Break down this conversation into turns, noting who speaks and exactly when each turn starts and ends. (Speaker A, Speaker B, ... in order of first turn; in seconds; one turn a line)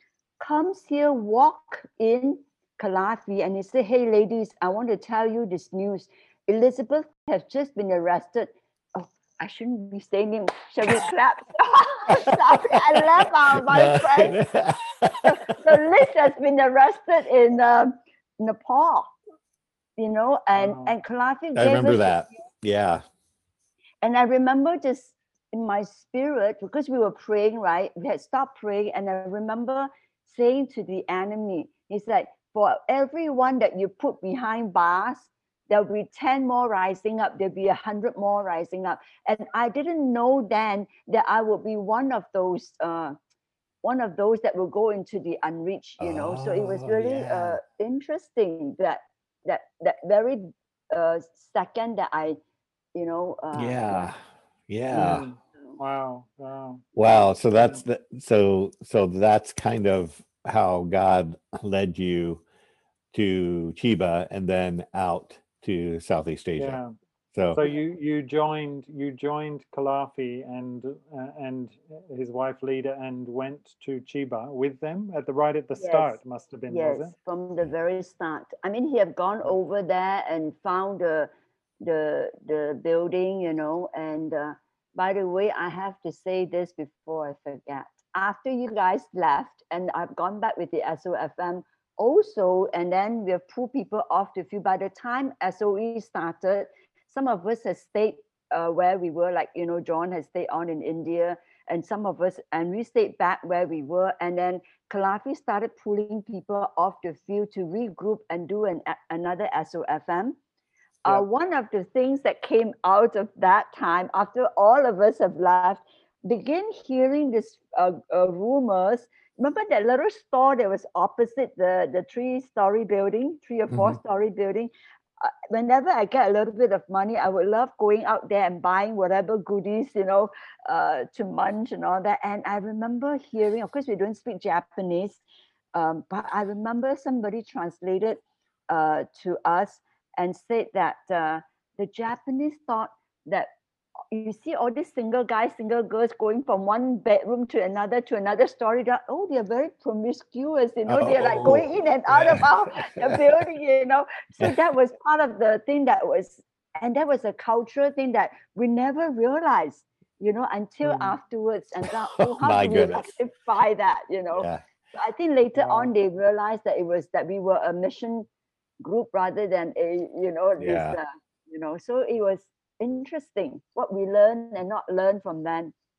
Speaker A: 0.4-14.4
Speaker B: 13.5-15.4
Speaker A: 15.2-19.1
Speaker A: 20.0-22.4
Speaker C: 20.6-20.9
Speaker B: 21.6-23.0
Speaker A: 24.0-43.2
Speaker A: 43.8-52.4
Speaker B: 46.0-47.6
Speaker A: 53.0-54.1
Speaker B: 53.5-55.3
Speaker C: 54.9-57.8
Speaker B: 57.0-62.4
Speaker B: 63.1-66.8
Speaker C: 66.6-66.9
Speaker B: 67.3-67.6
Speaker C: 67.5-77.1
Speaker A: 75.8-81.3
Speaker A: 81.8-110.4
Speaker A: 111.0-135.2
Speaker A: 135.8-143.5
Speaker A: 144.1-168.3
Speaker B: 150.9-153.2
Speaker C: 160.8-161.2
Speaker B: 162.2-163.2
Speaker B: 164.4-164.6
Speaker C: 165.6-165.9
Speaker A: 168.8-175.7
Speaker B: 170.6-171.0